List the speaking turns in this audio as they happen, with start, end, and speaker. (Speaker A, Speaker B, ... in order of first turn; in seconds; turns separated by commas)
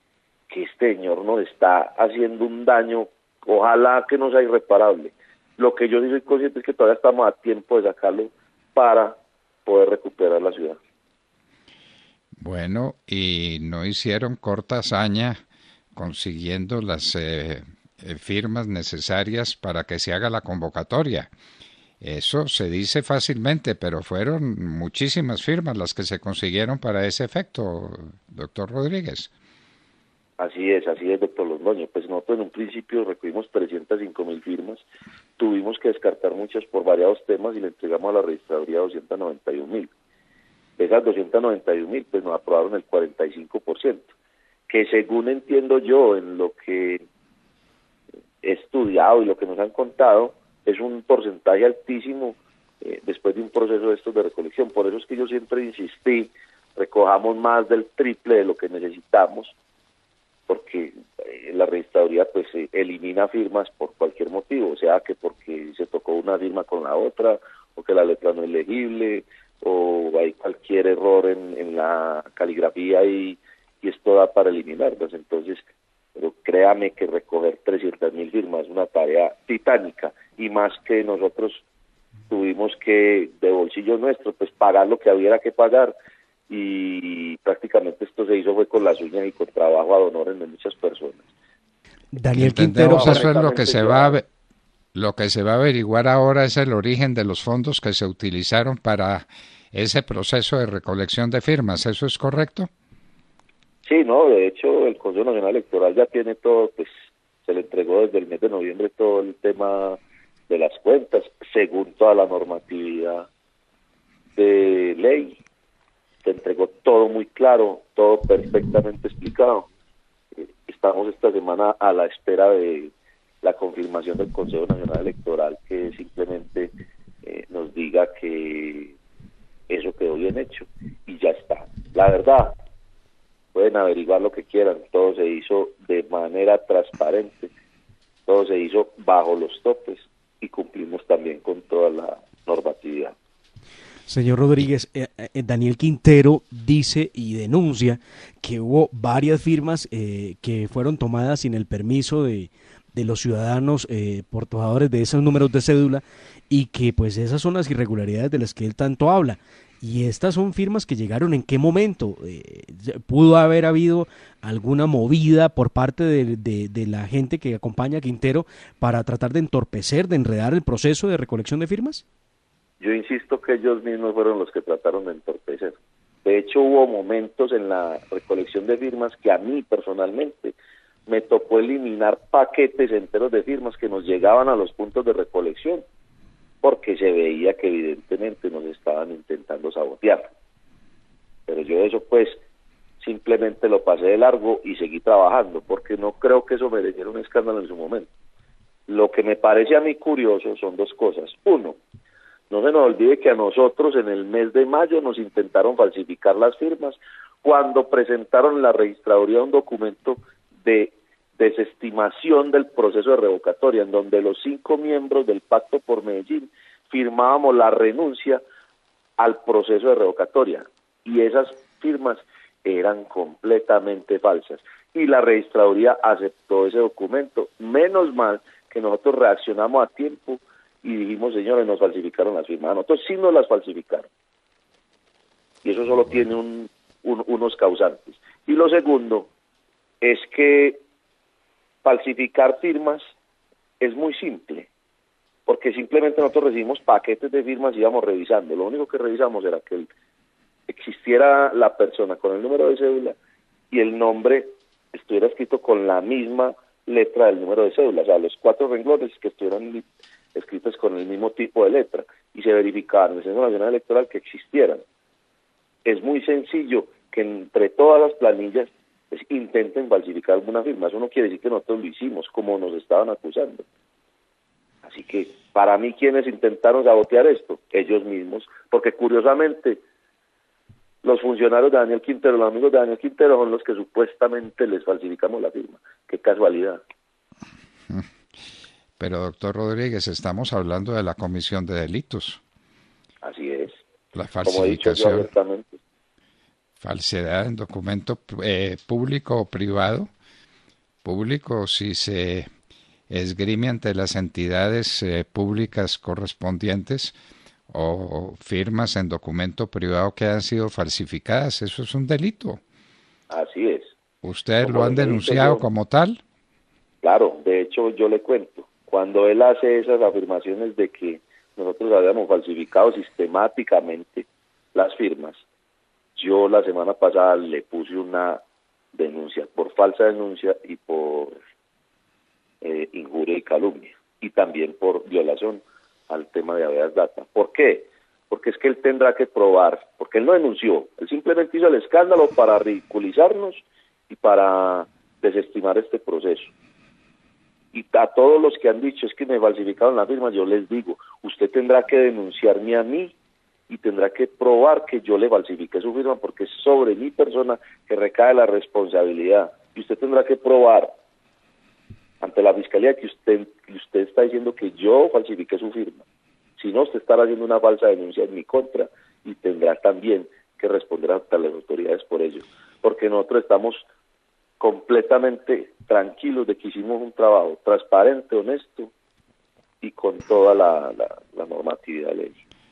Speaker A: 0.5-10.8, Speaker B: 12.4-15.4, Speaker B: 15.9-21.3, Speaker B: 22.0-29.3, Speaker A: 30.4-34.9, Speaker A: 35.4-39.9, Speaker A: 40.8-44.1, Speaker A: 44.7-47.0, Speaker A: 48.4-59.5, Speaker A: 60.5-81.6, Speaker A: 82.3-85.9, Speaker A: 86.5-91.2, Speaker C: 92.1-93.2, Speaker B: 92.3-94.3, Speaker A: 92.8-94.2, Speaker B: 94.9-102.7, Speaker A: 103.8-106.9, Speaker A: 107.5-113.3, Speaker A: 114.4-115.4, Speaker A: 116.2-119.7, Speaker A: 120.4-129.0, Speaker A: 129.7-132.6, Speaker A: 133.5-137.5, Speaker A: 138.3-143.1, Speaker C: 144.1-172.0, Speaker A: 172.8-180.6, Speaker A: 181.1-185.8, Speaker A: 186.6-190.3, Speaker A: 191.5-192.4, Speaker A: 193.0-198.1, Speaker A: 198.9-201.8, Speaker A: 202.5-218.4, Speaker A: 219.2-234.1, Speaker A: 235.6-239.3, Speaker A: 240.0-240.8, Speaker A: 241.8-243.0, Speaker A: 243.8-244.7, Speaker A: 245.5-249.9, Speaker A: 250.7-253.2, Speaker A: 253.7-259.8, Speaker A: 260.3-264.8, Speaker A: 265.9-273.6, Speaker A: 274.8-279.8, Speaker A: 281.0-286.8, Speaker B: 289.0-292.4, Speaker A: 293.2-293.8, Speaker B: 294.1-295.3, Speaker A: 294.4-295.8, Speaker B: 296.8-300.1, Speaker B: 301.0-302.5, Speaker B: 303.1-307.1, Speaker B: 307.7-312.6, Speaker A: 313.3-313.9, Speaker B: 314.2-316.2, Speaker A: 314.6-315.7, Speaker A: 317.0-325.4, Speaker A: 326.2-328.4, Speaker A: 328.9-331.4, Speaker A: 332.6-346.5, Speaker A: 347.7-353.1, Speaker A: 353.7-360.9, Speaker A: 362.2-366.0, Speaker A: 366.6-373.8, Speaker A: 374.6-378.9, Speaker A: 379.8-382.4